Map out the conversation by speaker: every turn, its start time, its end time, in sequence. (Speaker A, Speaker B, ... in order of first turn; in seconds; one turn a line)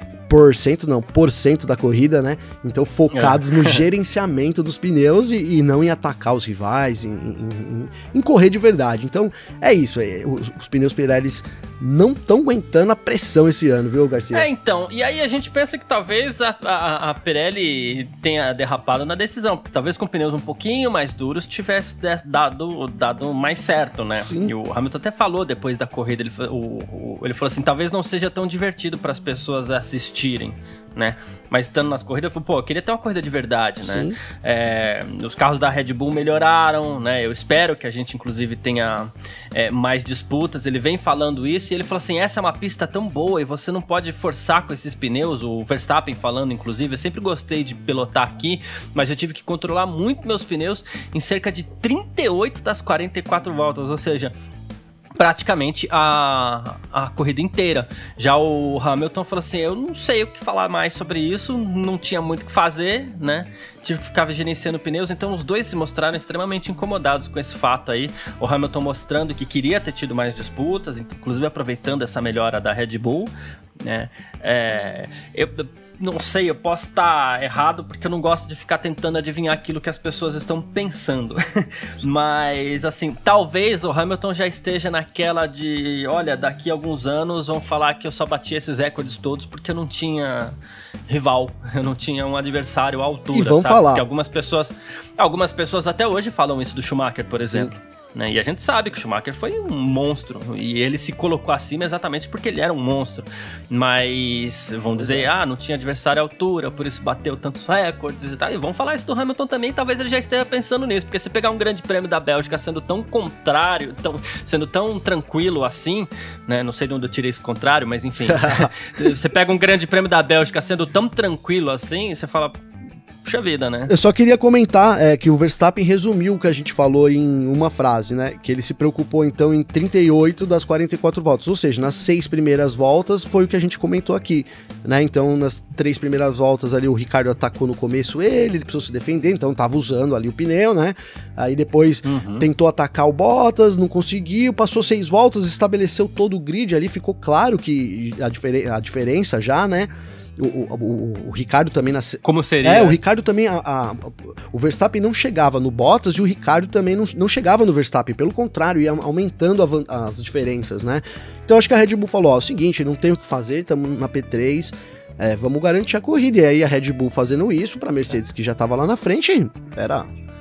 Speaker A: 0.3-14.5
Speaker B: 3.1-3.8
Speaker B: 14.3-54.3
Speaker A: 24.2-24.5
Speaker A: 33.8-34.2
Speaker B: 55.2-90.6
Speaker B: 91.1-122.6
Speaker A: 93.3-94.0
Speaker A: 97.4-97.7
Speaker A: 105.0-105.3
Speaker A: 118.3-119.1
Speaker B: 123.2-123.9
Speaker A: 123.9-170.1
Speaker B: 142.1-142.5
Speaker B: 152.2-153.0